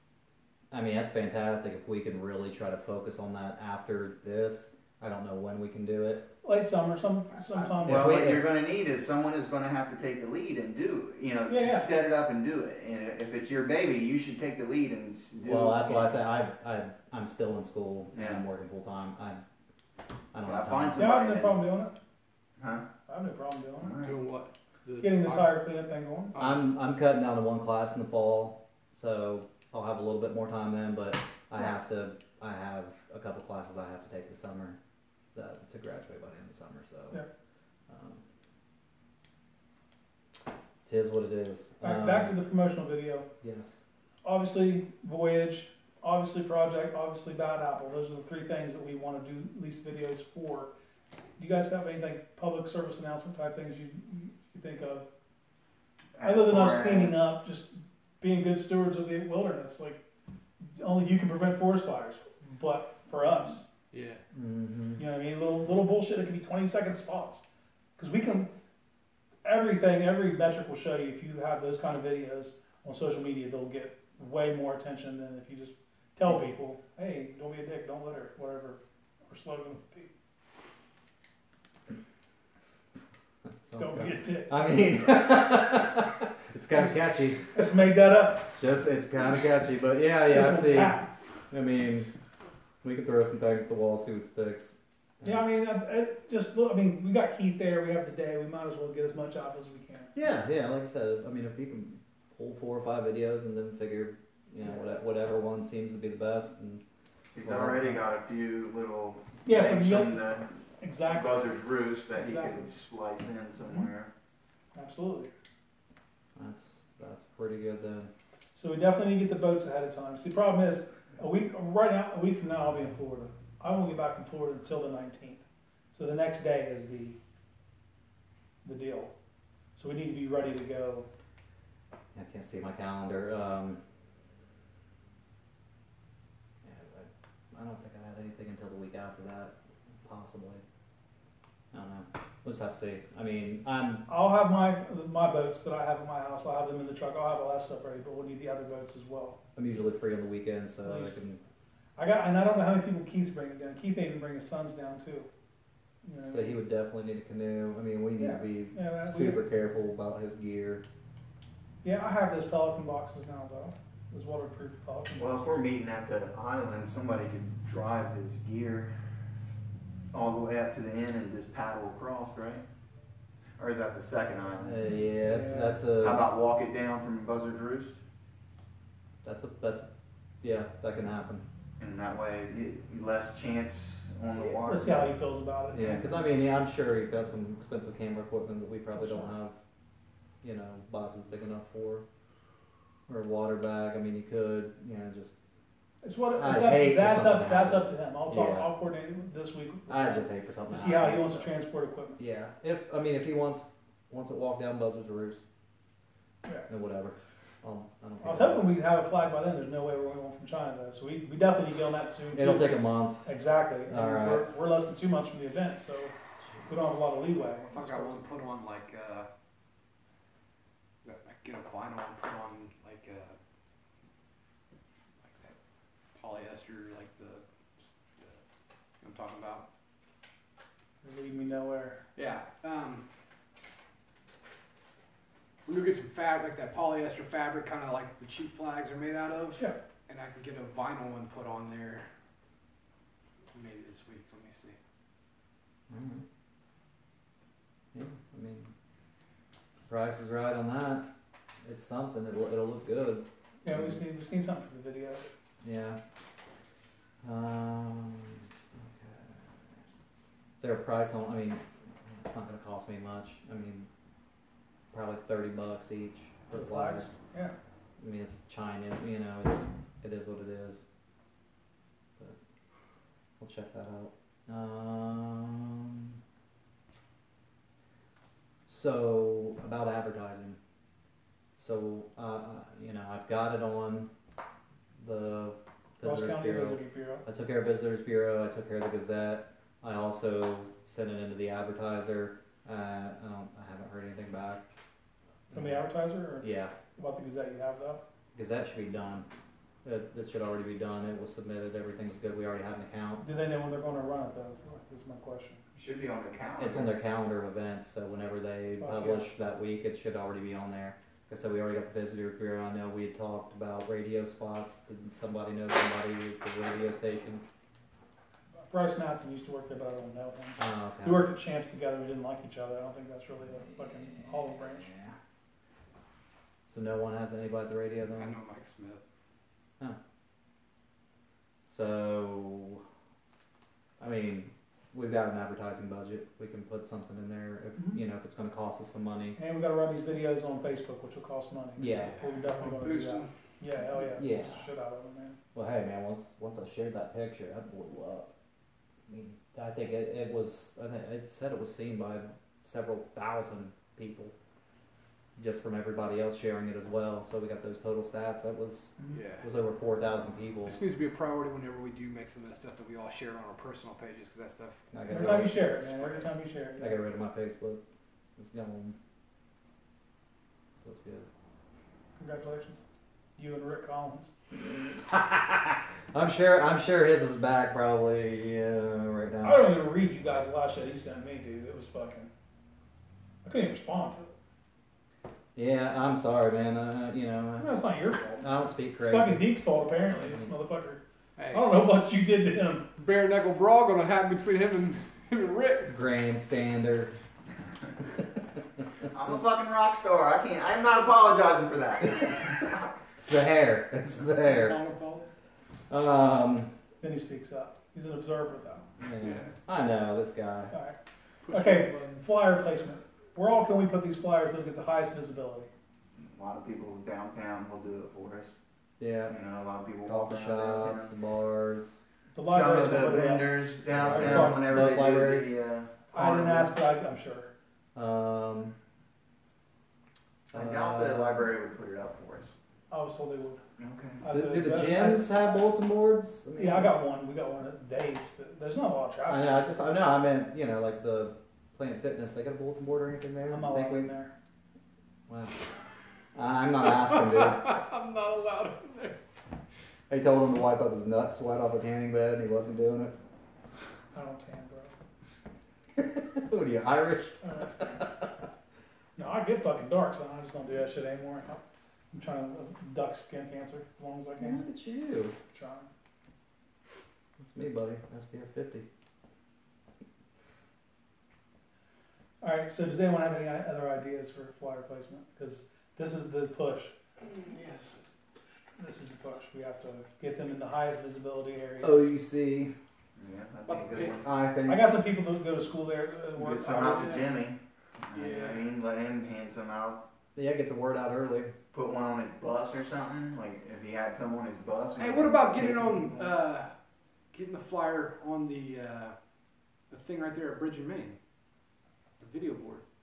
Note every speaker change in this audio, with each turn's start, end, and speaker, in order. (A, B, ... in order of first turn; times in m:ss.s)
0:00.7-0:06.3 A
0:06.4-0:08.2 B
0:07.4-0:16.2 C
0:07.8-0:08.6 A
0:11.5-0:11.9 B
0:15.4-0:19.4 A
0:18.1-0:18.5 C
0:20.3-0:21.2 A
0:20.4-0:21.7 C
0:21.0-0:21.9 B
0:22.6-0:22.8 C
0:23.1-0:24.0 B
0:23.8-0:24.2 C
0:24.0-0:25.6 D
0:25.0-0:26.3 B
0:26.3-0:26.6 D
0:26.4-0:34.8 A
0:35.3-0:37.2 A
0:37.9-0:38.2 A
0:40.8-0:42.3 A
0:41.8-0:43.3 B
0:43.4-0:43.8 A
0:44.2-0:50.7 B
0:51.4-0:55.1 B
0:56.2-0:57.3 C
0:56.2-1:00.0 B
1:00.7-1:03.6 B
1:03.9-1:04.2 D
1:04.3-1:05.0 A
1:05.0-1:07.4 B
1:08.0-1:08.5 B
1:09.4-1:20.1 B
1:23.6-1:27.9 A
1:23.8-1:24.6 B
1:26.7-1:27.0 B
1:27.5-1:28.6 B
1:28.5-1:32.1 A
1:30.3-1:31.1 B
1:32.8-1:35.4 A
1:35.2-1:40.1 B
1:40.2-1:46.8 A
1:44.6-1:44.9 B
1:47.3-1:50.5 C
1:47.4-1:48.0 A
1:49.4-1:50.3 B
1:50.8-1:51.6 B
1:51.1-1:54.1 C
1:52.1-1:52.7 B
1:54.8-1:55.3 B
1:56.4-1:58.1 A
1:58.6-2:05.4 B
2:05.9-2:07.2 B
2:08.6-2:09.1 B
2:09.8-2:11.1 B
2:12.1-2:13.8 A
2:16.6-2:20.6 A
2:21.7-2:24.1 A
2:24.1-2:29.4 B
2:29.6-2:31.4 A
2:30.8-2:31.2 B
2:32.0-2:35.3 B
2:36.0-2:36.6 B
2:36.3-2:40.8 A
2:38.2-2:39.4 B
2:41.8-2:45.5 B
2:45.2-2:48.9 C
2:50.1-2:52.6 C
2:53.6-2:54.9 C
2:54.6-2:56.3 A
2:54.9-2:55.8 B
2:56.0-2:58.0 C
2:59.2-2:59.9 A
3:00.4-3:01.4 A
3:01.8-3:05.2 C
3:04.4-3:06.2 B
3:05.7-3:09.6 A
3:09.0-3:09.3 B
3:10.4-3:12.0 A
3:13.1-3:15.4 A
3:16.0-3:22.2 B
3:16.4-3:18.7 A
3:19.9-3:21.5 A
3:22.2-3:25.4 A
3:26.7-3:28.7 A
3:28.2-3:36.1 B
3:32.3-3:33.3 A
3:33.9-3:34.5 A
3:36.4-3:37.0 A
3:36.7-3:38.2 B
3:37.7-3:39.3 D
3:41.0-3:43.4 D
3:45.2-3:45.6 D
3:46.1-3:48.4 D
3:49.0-3:49.6 D
3:51.0-3:52.0 B
3:52.2-3:53.0 D
3:55.7-4:02.1 D
4:03.5-4:04.8 D
4:05.9-4:06.2 A
4:07.9-4:08.7 A
4:09.9-4:11.1 A
4:11.6-4:14.0 A
4:13.6-4:15.3 B
4:15.6-4:16.0 A
4:17.2-4:19.5 A
4:20.6-4:23.9 A
4:24.9-4:27.2 A
4:26.5-4:27.6 B
4:28.0-4:30.8 A
4:33.4-4:36.2 A
4:38.7-4:40.6 A
4:41.6-4:44.1 A
4:45.0-4:54.6 A
4:46.0-4:47.2 B
4:55.5-4:55.9 A
4:55.5-4:58.0 B
4:56.4-4:56.7 A
4:58.4-4:59.3 A
4:59.8-5:03.2 A
5:03.2-5:05.6 B
5:05.7-5:07.0 C
5:06.6-5:17.4 A
5:08.8-5:09.3 B
5:18.6-5:24.9 B
5:20.6-5:21.3 A
5:23.7-5:25.2 A
5:26.7-5:28.3 A
5:28.2-5:29.0 D
5:31.7-5:32.8 A
5:34.0-5:39.4 A
5:37.8-5:38.0 B
5:39.4-5:45.4 B
5:41.8-5:42.2 A
5:42.0-5:43.3 D
5:44.0-5:44.7 A
5:45.5-5:48.3 A
5:49.1-5:54.3 A
5:55.4-6:00.8 A
5:59.1-5:59.5 D
6:00.6-6:06.3 D
6:04.9-6:05.8 A
6:05.1-6:07.0 B
6:06.8-6:07.8 A
6:08.4-6:09.0 A
6:10.8-6:11.3 A
6:12.2-6:12.8 B
6:13.4-6:14.3 B
6:14.5-6:19.7 A
6:19.4-6:22.3 B
6:23.4-6:24.3 B
6:25.6-6:27.8 A
6:27.6-6:28.4 B
6:28.4-6:29.5 A
6:29.0-6:31.0 B
6:31.4-6:31.7 D
6:31.5-6:32.9 B
6:33.0-6:35.9 D
6:35.9-6:37.1 A
6:39.1-6:42.8 C
6:43.2-6:44.8 A
6:44.4-6:45.2 B
6:45.9-6:46.7 A
6:47.0-6:48.8 B
6:49.0-6:50.7 A
6:49.2-6:49.5 D
6:51.4-6:52.2 D
6:51.5-6:55.7 B
6:56.2-6:58.6 C
6:59.0-6:59.4 A
6:59.3-7:01.1 C
7:00.0-7:02.0 A
7:02.3-7:04.7 B
7:02.4-7:06.7 C
7:03.9-7:05.6 A
7:06.1-7:07.5 B
7:08.0-7:08.7 A
7:10.5-7:11.5 A
7:10.5-7:12.6 C
7:12.9-7:13.6 B
7:13.8-7:14.2 C
7:14.2-7:15.3 B
7:14.3-7:16.9 A
7:16.6-7:19.6 B
7:19.3-7:24.1 A
7:23.5-7:24.3 B
7:25.3-7:25.6 A
7:26.4-7:27.8 A
7:27.0-7:29.2 D
7:30.1-7:33.2 A
7:34.1-7:34.9 B
7:36.0-7:38.3 A
7:37.4-7:38.1 B
7:39.2-7:44.6 B
7:44.4-7:45.4 A
7:45.5-7:45.9 B
7:47.4-7:48.9 A
7:52.4-7:56.9 B
7:57.2-7:58.0 D
7:58.8-8:02.1 B
8:01.8-8:02.7 A
8:03.2-8:04.3 C
8:03.7-8:04.1 D
8:04.2-8:04.9 A
8:04.7-8:07.2 B
8:06.4-8:10.0 C
8:06.8-8:07.3 D
8:08.1-8:08.7 D
8:10.4-8:11.6 A
8:11.7-8:16.3 C
8:15.0-8:16.7 D
8:17.3-8:19.2 D
8:19.9-8:21.2 D
8:22.2-8:22.8 D